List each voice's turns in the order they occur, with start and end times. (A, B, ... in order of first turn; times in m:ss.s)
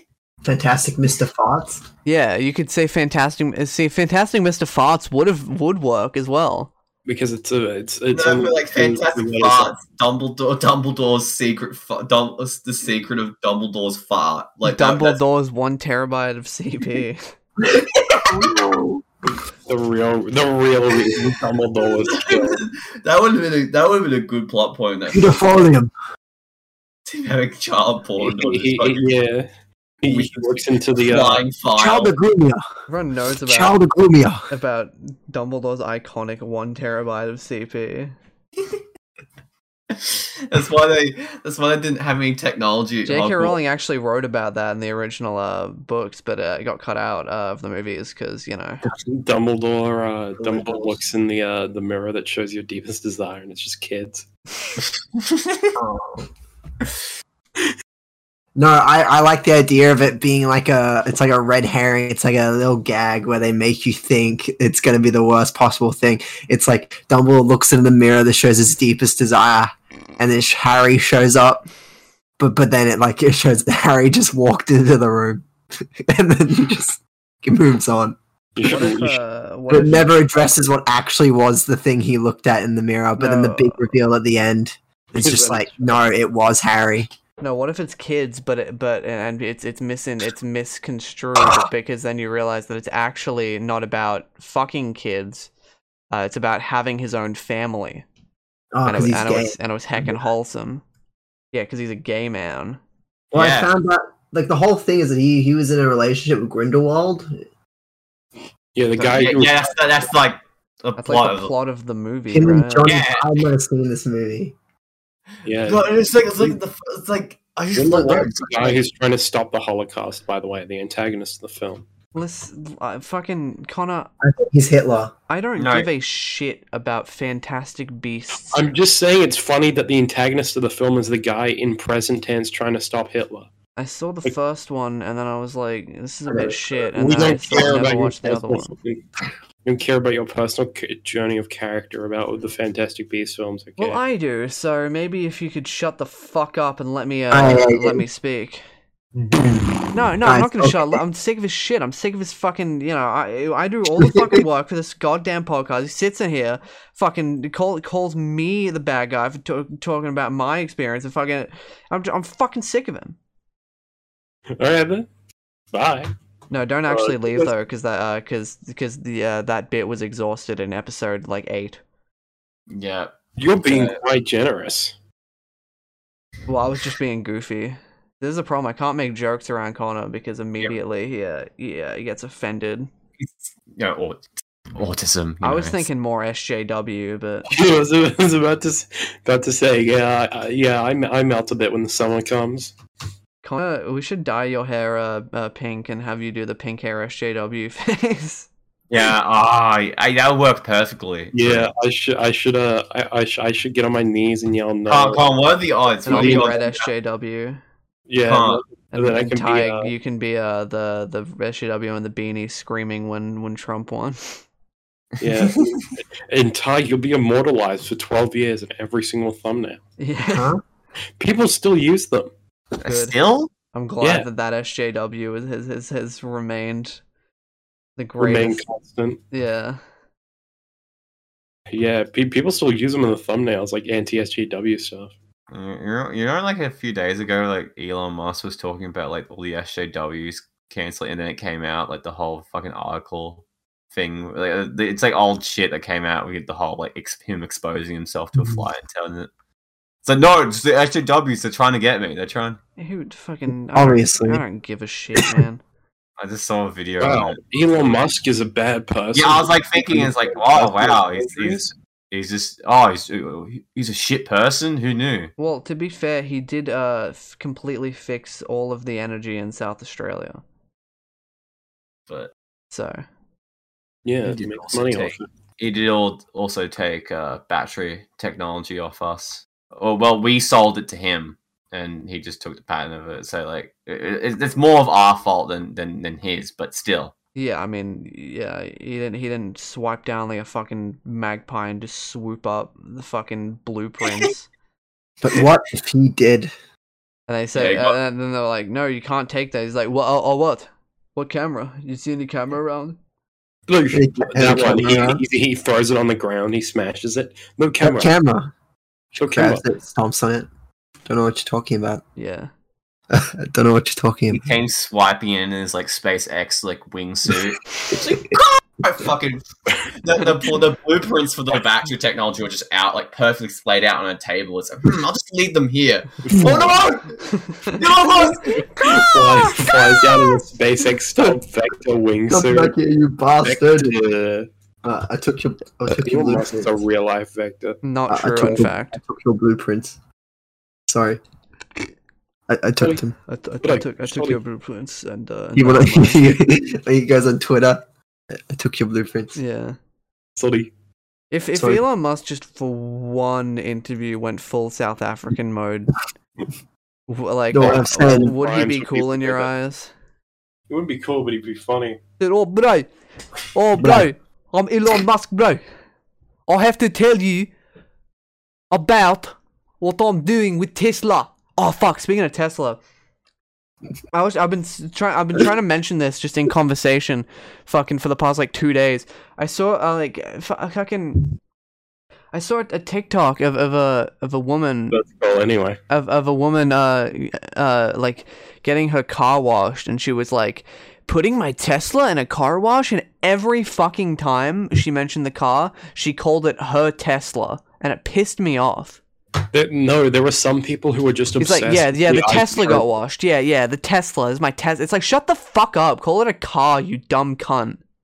0:00.4-0:01.8 A
0:02.0-0:06.7 B
0:07.0-0:09.7 C
0:08.1-0:15.2 D
0:14.6-0:17.2 B
0:17.7-0:19.0 A
0:17.7-0:18.5 D
0:19.6-0:22.6 C
0:22.0-0:25.7 D
0:25.1-0:25.9 A
0:27.0-0:29.1 D
0:28.2-0:29.5 C
0:30.0-0:31.4 C
0:30.0-0:32.1 D
0:31.8-0:32.6 A
0:32.9-0:33.8 B
0:33.4-0:34.5 A
0:34.5-0:38.1 B
0:39.9-0:43.6 D
0:43.0-0:48.8 B
0:48.9-0:54.2 C
0:50.4-0:51.0 A
0:55.2-0:55.7 D
0:55.7-0:56.3 A
0:58.5-1:11.6 A
1:12.4-1:18.2 A
1:18.6-1:19.2 C
1:18.6-1:20.2 B
1:19.7-1:27.1 A
1:23.2-1:23.9 B
1:25.2-1:25.9 C
1:27.4-1:35.5 B
1:36.1-1:38.0 B
1:38.7-1:40.1 A
1:38.8-1:40.8 B
1:41.5-1:42.8 B
1:43.3-1:43.7 D
1:43.3-1:47.4 A
1:48.7-1:49.8 C
1:49.0-1:51.5 D
1:51.0-1:52.9 B
1:52.3-1:54.5 A
1:52.8-1:53.4 D
1:55.4-1:55.8 C
1:55.6-1:58.8 D
1:57.7-2:01.8 C
2:02.1-2:04.1 B
2:04.2-2:05.1 A
2:05.3-2:08.6 B
2:05.6-2:05.9 D
2:08.5-2:13.5 C
2:13.8-2:18.7 B
2:16.9-2:19.0 C
2:19.6-2:24.0 C
2:23.8-2:28.6 B
2:27.3-2:28.0 A
2:29.3-2:31.0 A
2:29.9-2:43.2 B
2:34.0-2:34.4 A
2:44.6-2:45.1 C
2:45.7-2:46.1 C
2:46.5-2:51.8 B
2:46.9-2:47.5 C
2:52.7-2:54.0 D
2:53.4-2:54.9 C
2:56.5-3:02.9 B
3:03.2-3:05.9 D
3:05.4-3:07.5 B
3:07.5-3:12.7 C
3:13.4-3:18.5 B
3:18.9-3:21.7 D
3:21.3-3:25.2 C
3:24.9-3:26.9 D
3:26.0-3:27.6 B
3:26.1-3:26.6 C
3:28.1-3:29.9 C
3:28.2-3:28.6 D
3:28.9-3:34.4 B
3:35.2-3:39.8 C
3:35.3-3:35.7 D
3:40.0-3:40.5 B
3:40.3-3:40.6 A
3:41.2-3:42.3 C
3:42.8-3:43.5 D
3:42.8-3:43.1 B
3:43.7-3:47.0 B
3:44.0-3:44.2 C
3:48.0-3:48.6 B
3:48.2-3:49.2 C
3:49.3-3:49.8 B
3:51.7-3:55.1 C
3:55.5-4:09.3 D
4:10.0-4:12.6 D
4:12.8-4:15.6 B
4:13.7-4:14.4 A
4:16.2-4:18.1 D
4:17.0-4:21.7 C
4:19.1-4:25.3 D
4:25.4-4:30.4 B
4:32.7-4:33.0 B
4:34.0-4:35.3 C
4:34.2-4:47.1 D
4:47.3-4:54.5 B
4:55.2-4:56.5 A
4:57.3-5:03.0 B
4:57.5-4:57.9 D
5:03.7-5:08.1 C
5:03.9-5:05.2 A
5:07.8-5:08.5 A
5:09.1-5:10.5 A
5:09.2-5:09.6 C
5:11.1-5:12.0 A
5:12.2-5:12.5 B
5:13.1-5:14.4 A
5:14.3-5:28.9 D
5:26.2-5:26.7 C
5:26.3-5:26.7 A
5:27.4-5:27.8 B
5:28.6-5:32.8 C
5:29.5-5:30.1 D
5:32.3-5:34.0 A
5:33.4-5:34.5 C
5:34.8-5:36.7 A
5:35.9-5:37.8 C
5:37.8-5:39.0 B
5:38.1-5:40.0 A
5:40.9-5:41.2 A
5:42.5-5:43.1 A
5:43.3-5:46.4 B
5:43.6-5:44.4 C
5:45.5-5:47.8 A
5:48.4-5:49.4 A
5:49.3-5:49.8 B
5:50.4-5:50.7 C
5:51.3-5:56.0 B
5:51.5-5:51.8 A
5:57.1-5:59.9 B
5:57.5-5:58.3 A
5:57.6-5:59.5 C
6:00.7-6:02.0 C
6:02.2-6:02.9 B
6:03.5-6:05.6 B
6:03.8-6:04.1 A
6:06.5-6:07.5 B
6:08.7-6:12.8 B
6:14.1-6:21.3 B
6:22.3-6:25.0 B
6:24.9-6:25.8 C
6:25.9-6:39.0 B
6:39.5-6:42.8 C
6:41.4-6:47.8 B